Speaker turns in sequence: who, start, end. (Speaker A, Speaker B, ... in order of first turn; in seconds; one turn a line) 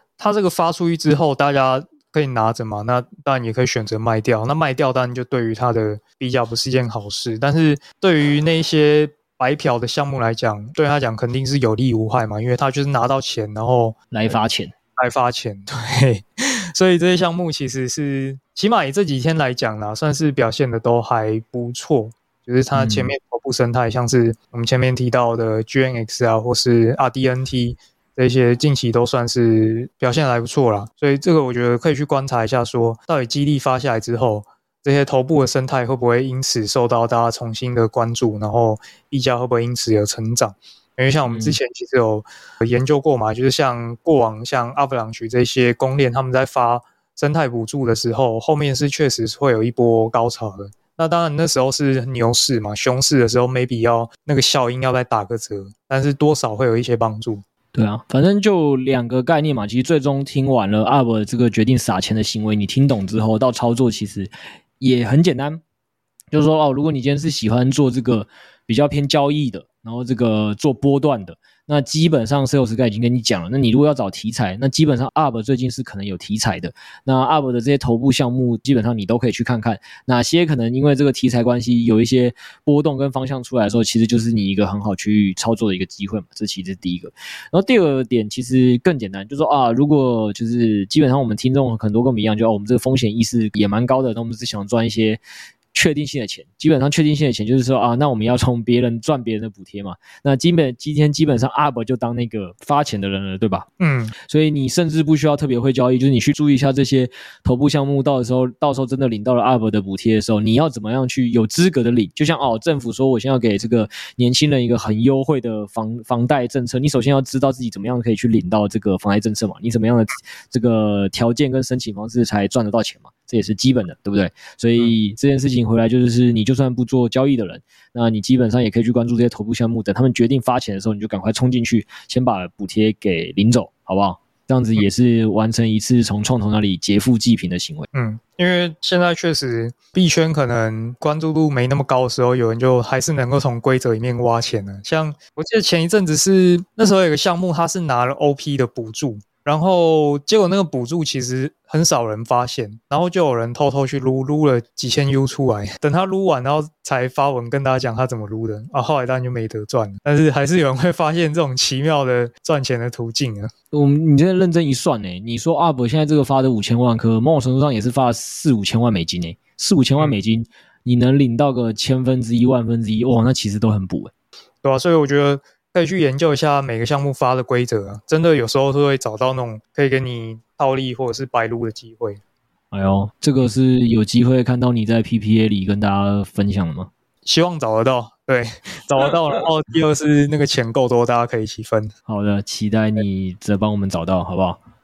Speaker A: 0.2-13.9
Speaker B: 14.1-14.7
Speaker A: 15.0-57.4
Speaker B: 22.7-23.1
Speaker B: 41.2-41.6
Speaker B: 57.7-65.6
Speaker B: 66.3-95.2
Speaker B: 95.7-137.8
Speaker A: 103.8-104.1
Speaker A: 137.9-163.5
Speaker B: 163.7-174.1
Speaker A: 174.6-182.2
Speaker B: 182.7-186.9
Speaker A: 187.2-191.9
Speaker B: 192.1-194.6